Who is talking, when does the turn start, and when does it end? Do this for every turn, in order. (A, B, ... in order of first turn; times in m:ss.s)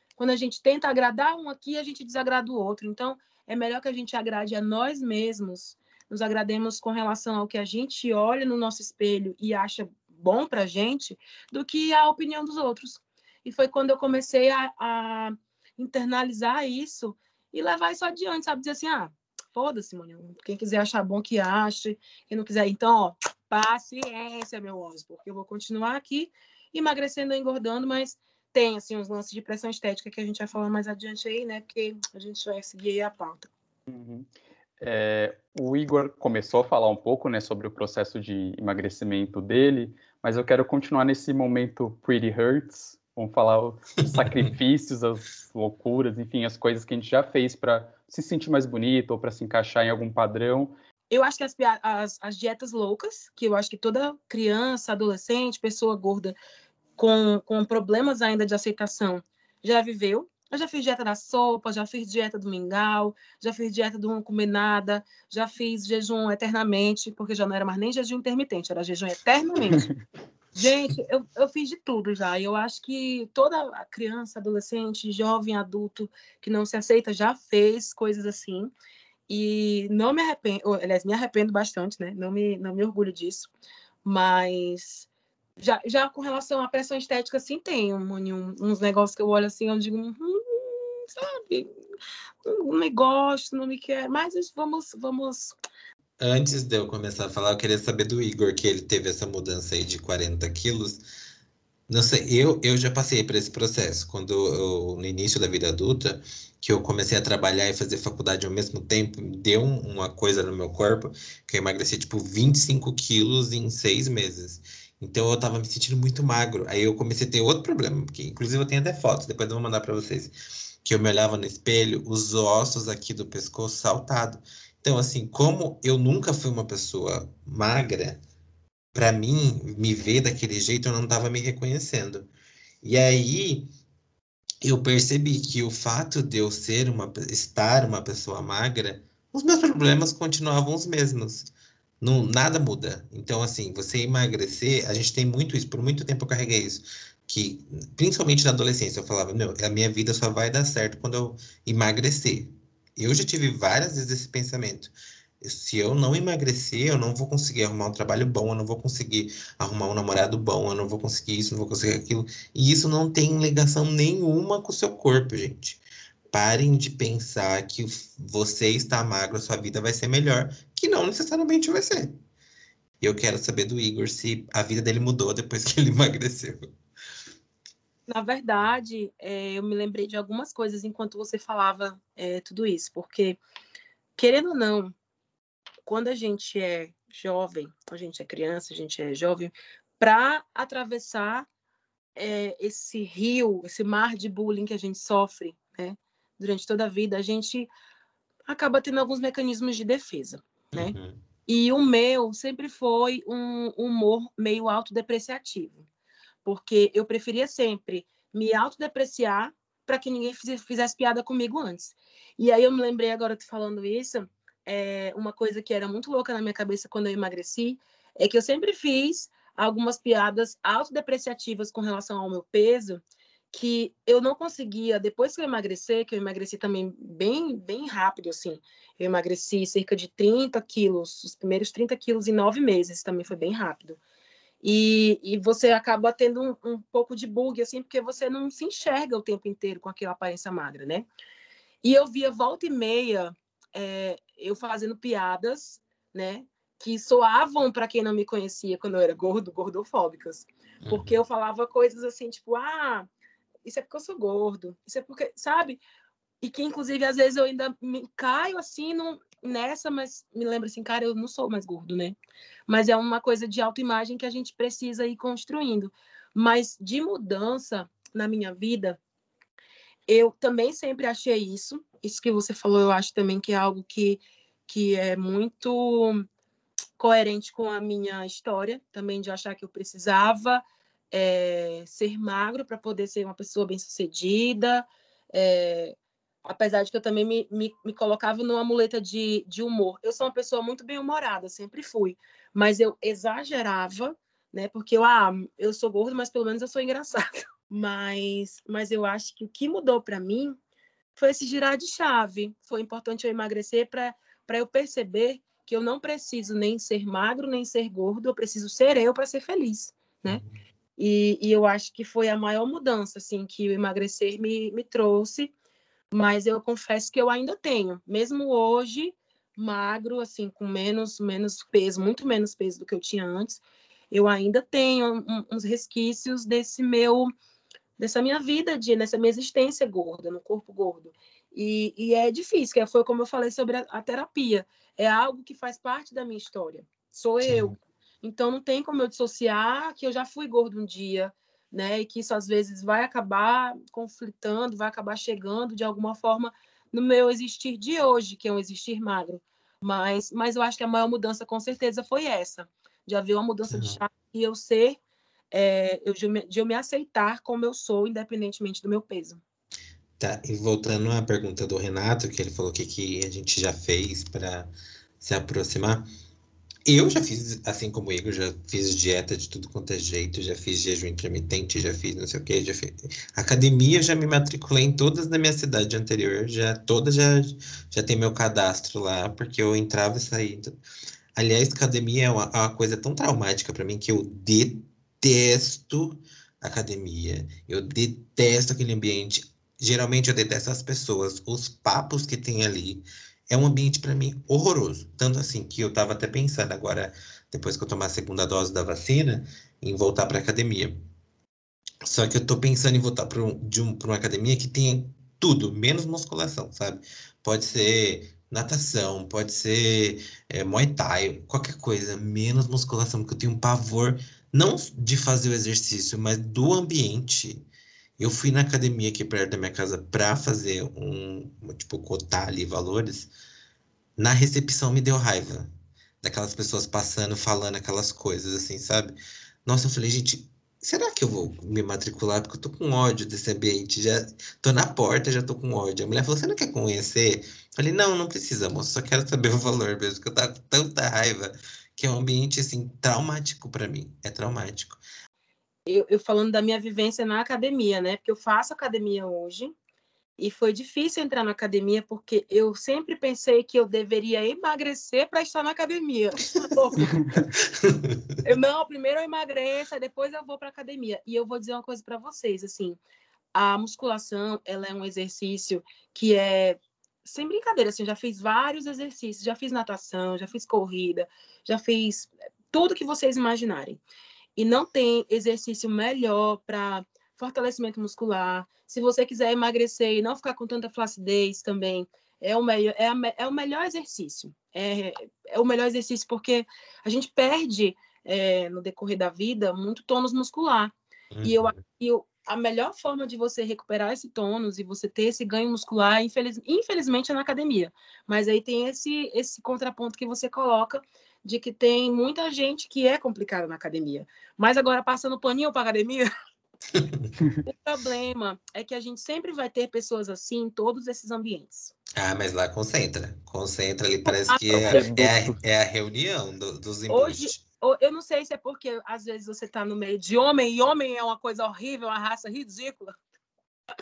0:00.2-0:33.5 A
0:33.9-0:34.3 B
0:34.8-0:50.7 B
0:51.1-0:56.4 A
0:57.0-1:09.9 A
1:10.6-1:18.7 A
1:19.3-1:23.5 A
1:24.0-1:25.1 A
1:25.6-1:31.7 A
1:32.4-1:35.6 A
1:36.2-1:41.0 C
1:41.9-2:08.2 C
2:08.9-2:12.3 C
2:12.8-2:13.7 C
2:14.6-2:21.5 C
2:22.0-2:52.2 C
2:53.0-2:56.7 C
2:58.1-3:03.4 A
3:04.2-3:04.9 A
3:05.8-3:11.5 A
3:12.2-3:17.7 A
3:18.5-3:21.0 A
3:20.7-3:21.2 C
3:21.5-3:25.8 A
3:26.4-3:54.0 A
3:54.6-4:01.1 A
4:01.8-4:13.1 A
4:10.8-4:11.2 C
4:13.6-4:15.8 A
4:16.4-4:29.0 A
4:30.1-4:36.2 A
4:37.0-5:00.6 A
5:01.2-5:10.4 A
5:10.3-5:10.5 C
5:11.0-5:15.5 A
5:16.1-5:27.3 A
5:28.0-5:55.0 A
5:37.4-5:37.8 C
5:53.7-5:54.0 C
5:55.5-5:59.4 A
6:00.2-6:04.7 C
6:05.2-6:06.1 C
6:06.9-6:20.8 C
6:21.4-6:41.0 C
6:42.0-6:57.6 C
6:58.2-7:03.3 C
7:04.2-7:05.7 C
7:06.2-7:25.0 C
7:25.9-7:29.7 A
7:30.4-7:37.2 A
7:37.4-7:38.4 C
7:38.4-7:43.0 A
7:43.5-7:54.0 A
7:54.6-8:26.3 A
8:11.4-8:11.8 C
8:26.9-8:27.3 C
8:27.6-8:31.9 A
8:32.2-8:37.6 C
8:34.3-8:35.0 A
8:34.7-8:35.6 B
8:37.1-8:43.2 A